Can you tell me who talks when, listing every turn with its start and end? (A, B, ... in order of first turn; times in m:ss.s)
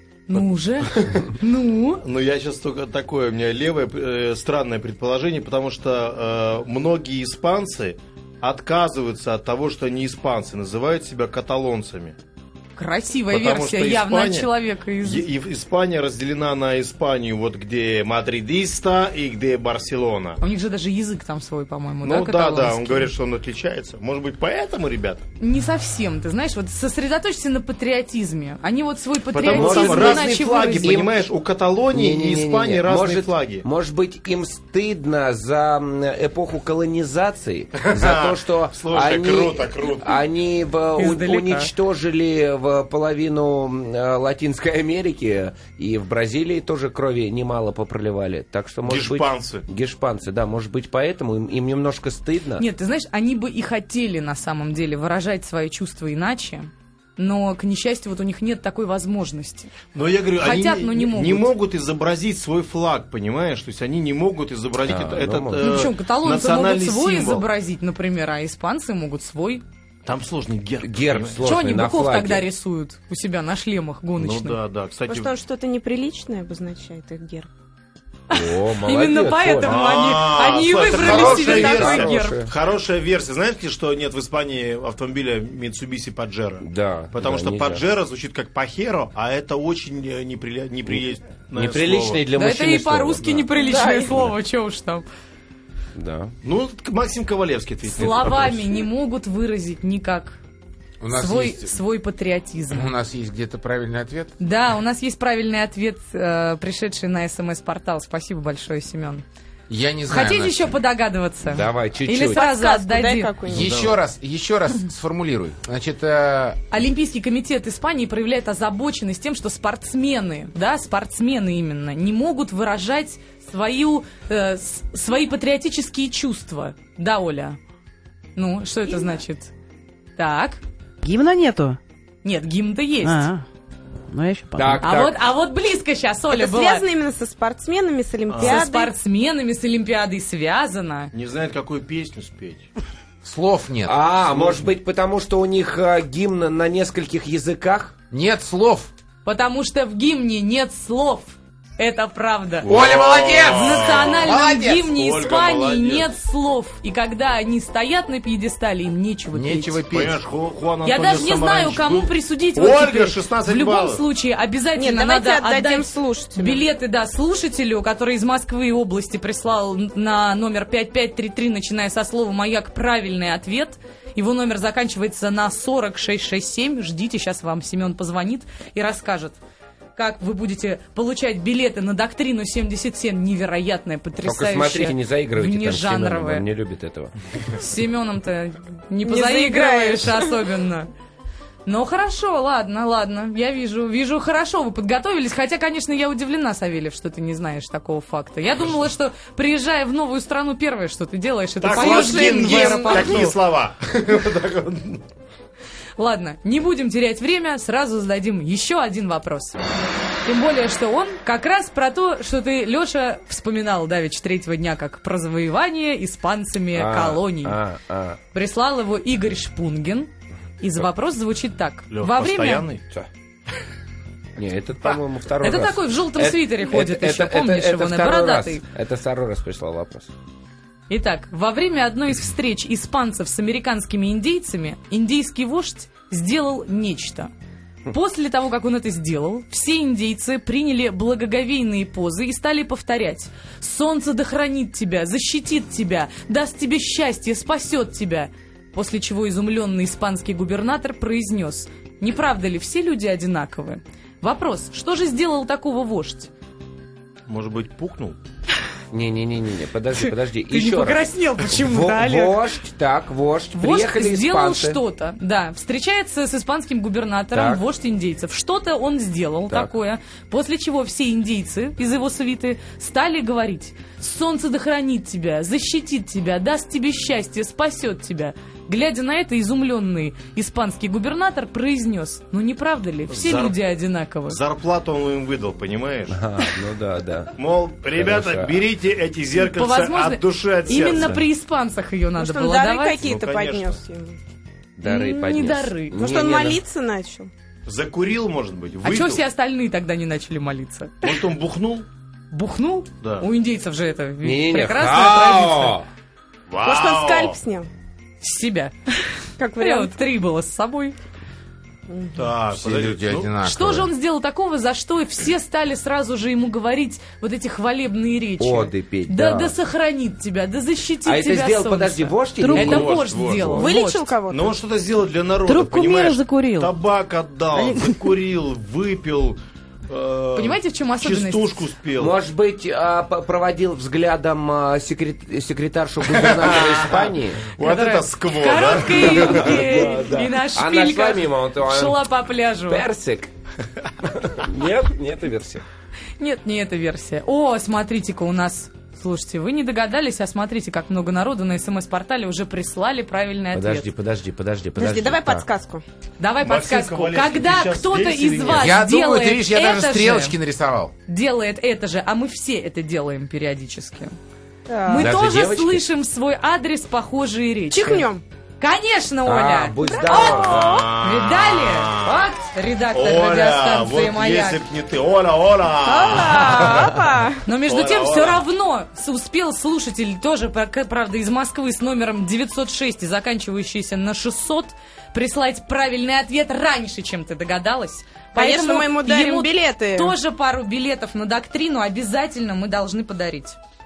0:00.3-0:02.0 A
0:00.4-0:01.3 B
0:02.0-0:12.2 B
0:12.8-0:15.2 A
0:13.3-0:14.5 B
0:15.0-0:20.4 B
0:20.4-0:23.1 A
0:22.0-0:25.2 B
0:25.4-0:31.0 A
0:29.3-0:33.7 B
0:29.5-0:31.2 C
0:31.9-0:52.6 C
0:37.8-0:40.2 B
0:41.0-0:41.7 A
0:48.8-0:49.7 B
0:52.6-0:59.7 A
0:59.9-1:07.5 B
1:00.4-1:01.5 A
1:04.9-1:05.9 C
1:05.6-1:09.6 A
1:10.0-1:11.5 B
1:10.8-1:12.4 C
1:11.4-1:14.6 A
1:14.2-1:15.3 B
1:15.1-1:17.5 D
1:18.3-1:22.4 A
1:18.3-1:20.0 C
1:19.6-1:32.2 B
1:20.9-1:22.5 C
1:26.6-1:27.8 C
1:31.5-1:33.5 C
1:32.3-1:35.1 A
1:33.6-1:34.2 D
1:36.0-1:36.4 C
1:36.4-1:38.8 B
1:37.9-1:40.4 A
1:41.0-1:41.8 E
1:41.1-1:42.9 A
1:42.7-1:44.4 E
1:44.4-1:49.2 A
1:49.7-1:50.8 E
1:50.1-1:53.3 A
1:51.4-1:52.4 C
1:52.3-1:53.8 D
1:53.5-1:56.6 E
1:53.5-1:53.9 B
1:56.7-2:07.6 A
2:08.4-2:09.5 A
2:10.2-2:10.6 A
2:11.0-2:11.8 F
2:12.2-2:13.3 A
2:13.0-2:13.4 F
2:14.1-2:14.9 F
2:14.6-2:15.2 C
2:14.8-2:16.8 A
2:16.3-2:19.0 D
2:18.3-2:18.6 B
2:18.4-2:21.1 A
2:21.1-2:22.7 B
2:23.2-2:23.9 E
2:23.9-2:28.0 C
2:24.3-2:24.7 B
2:28.1-2:28.9 E
2:29.2-2:32.7 A
2:32.6-2:36.1 B
2:32.6-2:34.9 E
2:33.5-2:39.8 A
2:39.3-2:40.2 E
2:39.9-2:44.0 B
2:40.8-2:59.4 A
2:44.8-2:46.7 D
3:00.0-3:06.5 A
3:04.2-3:07.1 C
3:07.5-3:10.9 A
3:09.0-3:10.4 D
3:11.6-3:23.4 A
3:21.6-3:25.0 B
3:21.7-3:23.2 D
3:26.0-3:29.6 A
3:30.2-3:37.6 A
3:36.7-3:38.2 C
3:38.3-3:40.1 A
3:40.6-3:42.7 A
3:41.9-3:42.8 B
3:44.4-3:50.1 C
3:45.4-3:48.6 A
3:50.9-3:57.3 A
3:57.9-4:16.3 A
4:17.3-4:18.2 B
4:18.9-4:24.8 C
4:20.0-4:22.4 A
4:23.6-4:44.4 A
4:27.3-4:27.6 C
4:43.1-4:43.6 B
4:44.3-4:46.2 B
4:46.1-4:47.4 C
4:47.4-4:51.2 B
4:48.0-4:48.6 C
4:49.4-4:53.1 A
4:51.0-4:51.2 C
4:52.2-4:54.2 D
4:53.0-4:53.8 B
4:54.8-4:56.6 C
4:54.8-4:56.0 A
4:55.9-4:57.3 D
4:57.7-4:59.2 B
4:58.8-5:01.0 A
5:01.0-5:01.9 B
5:02.3-5:05.8 A
5:03.0-5:03.3 B
5:04.2-5:05.9 C
5:06.5-5:07.4 B
5:06.6-5:07.7 D
5:08.2-5:11.0 A
5:09.4-5:09.9 D
5:11.9-5:12.3 D
5:12.1-5:13.3 B
5:12.5-5:13.9 E
5:13.4-5:24.1 A
5:18.4-5:19.6 C
5:21.0-5:23.7 C
5:22.4-5:22.8 F
5:22.6-5:23.6 B
5:23.6-5:24.6 D
5:24.3-5:29.4 B
5:25.4-5:26.7 F
5:27.5-5:28.0 F
5:29.9-5:32.2 B
5:30.4-5:31.6 A
5:32.0-5:37.5 C
5:36.0-5:40.1 B
5:37.6-5:42.8 A
5:38.9-5:42.1 C
5:42.7-5:43.3 C
5:44.1-5:45.6 C
5:46.2-5:53.9 A
5:53.5-5:55.5 C
5:54.8-5:55.8 D
5:56.2-6:00.4 A
5:56.4-5:58.8 B
5:58.5-6:00.9 E
6:01.1-6:04.1 A
6:04.7-6:05.1 D
6:04.9-6:14.6 A
6:04.9-6:05.8 C
6:07.7-6:08.2 D
6:09.2-6:10.8 C
6:10.0-6:10.9 D
6:10.2-6:12.3 B
6:12.9-6:16.9 B
6:15.8-6:17.4 D
6:17.4-6:33.6 A
6:17.7-6:18.4 B
6:28.3-6:30.1 D